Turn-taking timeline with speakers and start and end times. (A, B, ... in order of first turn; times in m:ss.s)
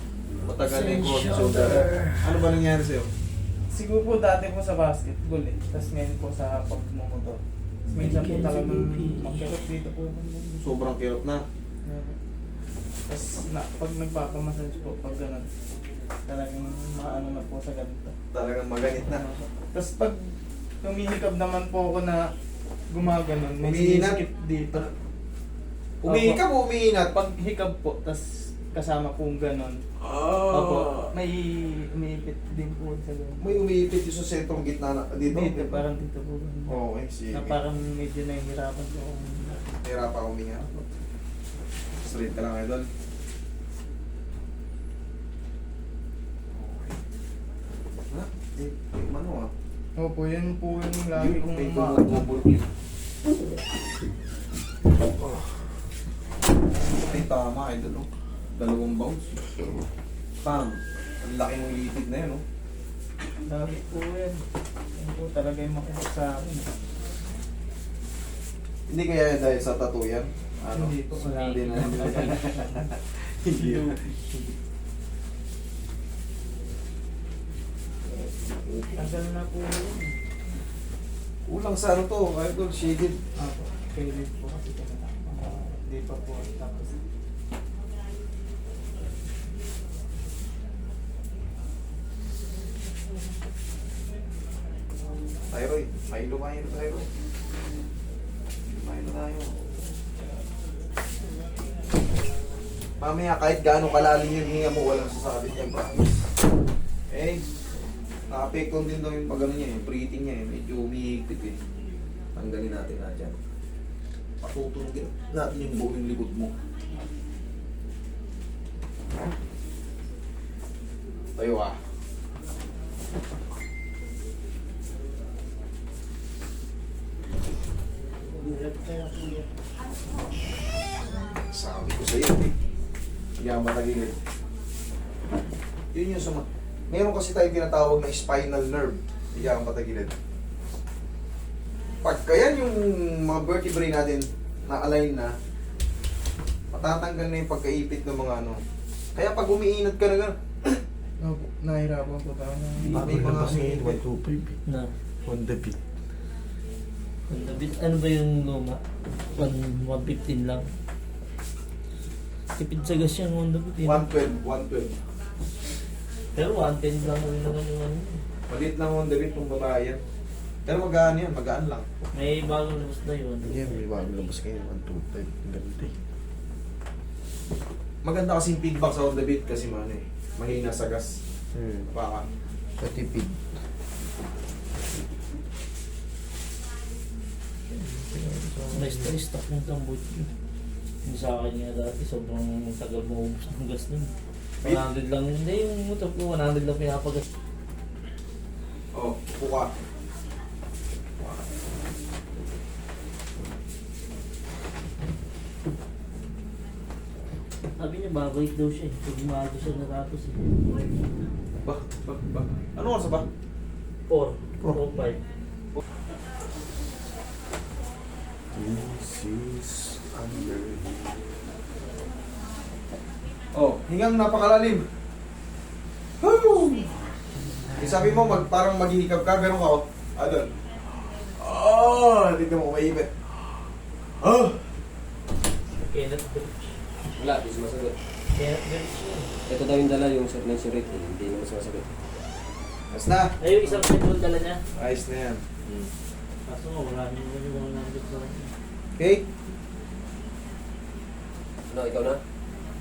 0:00.4-0:03.1 A
0:00.6-0:02.2 B
0:03.7-0:10.8 C
0:07.9-0:09.5 B
0:10.6-0:11.4 A
0:11.8-0:12.2 C
0:13.1-0:15.6 C
0:16.2-0:18.2 C
0:18.3-0:19.2 A
0:19.0-0:22.3 C
0:22.9-0:24.9 C
0:23.6-0:24.2 A
0:26.0-0:27.2 A
0:26.0-0:26.4 C
0:27.1-0:29.8 C
0:30.0-0:31.1 A
0:30.5-0:33.6 C
0:33.4-0:35.8 A
0:35.3-0:36.8 C
0:36.7-0:37.6 A
0:37.3-0:39.7 C
0:39.8-0:40.8 A
0:42.0-0:42.9 A
0:46.5-0:47.0 A
0:48.1-0:49.5 A
0:50.0-0:52.1 C
0:51.1-0:52.7 A
0:57.0-0:59.4 A
1:00.4-1:02.4 A
1:03.4-1:06.8 C
1:08.9-1:14.1 A
1:10.7-1:12.6 C
1:13.6-1:14.0 C
1:18.5-1:18.8 A
1:18.9-1:20.3 C
1:21.5-1:23.2 A
1:23.4-1:27.0 C
1:35.5-1:37.1 A
1:38.7-1:39.5 A
1:43.0-1:46.2 A
1:47.1-1:47.4 A
1:48.3-1:51.6 A
1:52.4-1:53.4 A
1:54.4-1:56.5 A
2:01.4-2:01.8 A
2:08.3-2:09.5 B
2:11.3-2:12.6 A
2:13.4-2:14.2 A
2:15.9-2:20.1 A
2:22.0-2:25.3 A
2:26.7-2:28.6 A
2:29.2-2:30.8 A
2:31.2-2:33.1 C
2:32.8-2:34.6 D
2:33.0-2:34.0 A
2:34.7-2:34.9 B
2:35.2-2:35.8 D
2:37.3-2:38.8 B
2:39.3-2:40.7 B
2:42.6-2:44.1 B
2:43.8-2:45.0 A
2:46.4-2:48.2 B
2:48.5-2:50.0 A
2:50.7-2:51.9 A
2:52.1-2:53.9 B
2:53.4-2:55.9 D
2:58.0-3:01.2 A
3:01.6-3:01.9 D
3:01.9-3:02.3 A
3:02.8-3:03.6 D
3:07.8-3:09.2 D
3:08.7-3:10.3 B
3:11.0-3:17.2 B
3:18.9-3:19.7 A
3:27.8-3:30.4 B
3:31.6-3:33.3 A
3:34.1-3:35.2 B
3:38.6-3:41.2 D
3:43.5-3:44.9 A
3:46.2-3:47.0 A
3:47.8-3:50.5 A
3:51.3-3:53.1 A
3:54.2-3:54.5 A
3:55.8-3:56.7 B
3:57.2-3:58.0 E
3:58.3-3:59.3 B
3:59.5-4:01.9 E
4:02.9-4:03.4 A
4:03.4-4:04.6 B
4:04.8-4:05.5 A
4:06.5-4:08.5 B
4:09.0-4:09.2 A
4:11.7-4:12.2 E